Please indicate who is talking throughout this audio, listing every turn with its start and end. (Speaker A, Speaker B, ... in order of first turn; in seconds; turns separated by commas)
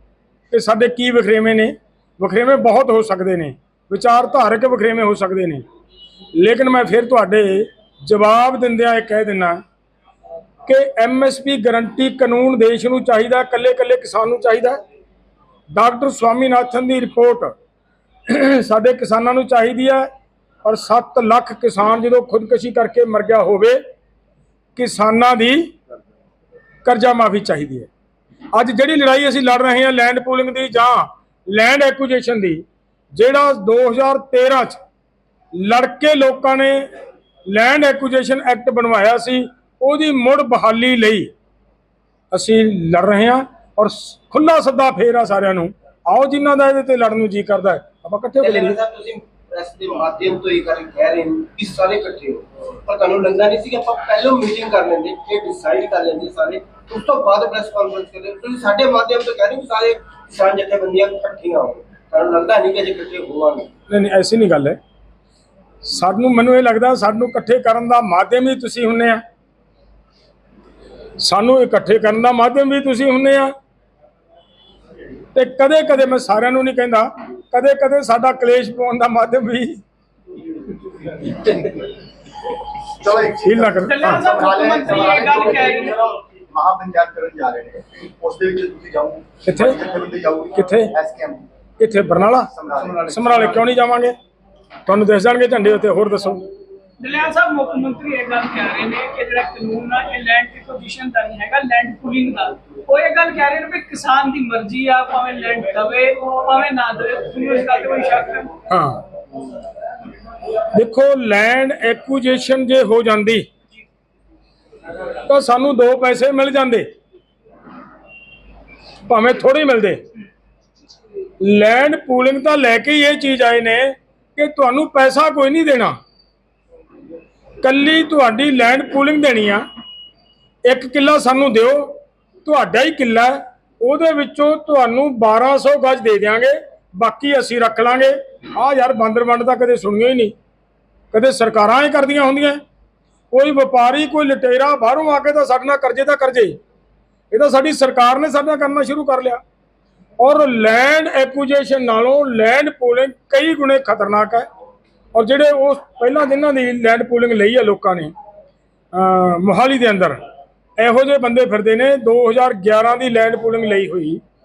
Speaker A: 0.5-5.6, Speaker A: 6.3-9.6, Speaker A: 10.7-14.8, Speaker A: 15.7-17.5, Speaker A: 18.3-20.1, Speaker A: 20.6-23.8, Speaker A: 24.8-25.7, Speaker A: 26.8-27.9, Speaker A: 28.5-34.8, Speaker A: 35.5-36.9, Speaker A: 37.5-41.3, Speaker A: 42.3-48.8, Speaker B: 48.4-63.7, Speaker A: 63.9-64.8, Speaker A: 65.8-69.2, Speaker A: 71.2-73.5, Speaker A: 75.3-79.8, Speaker C: 81.2-81.8, Speaker C: 83.0-91.4, Speaker A: 83.4-84.3, Speaker D: 83.8-86.0, Speaker A: 89.5-89.8, Speaker A: 90.5-90.9, Speaker A: 91.8-92.5, Speaker C: 92.5-93.6, Speaker A: 93.1-94.1, Speaker A: 94.8-96.5, Speaker D: 97.0-108.5, Speaker A: 108.7-109.0, Speaker A: 110.7-113.5, Speaker A: 115.3-116.9, Speaker A: 119.1-120.0, Speaker A: 121.4-126.0, Speaker A: 127.6-129.6, Speaker A: 130.7-140.3, Speaker A: 141.1-142.6, Speaker A: 143.3-146.6, Speaker A: 147.3-149.4, Speaker A: 150.2-154.4, Speaker A: 155.1-158.1, Speaker A: 158.9-160.2, Speaker A: 160.8-164.2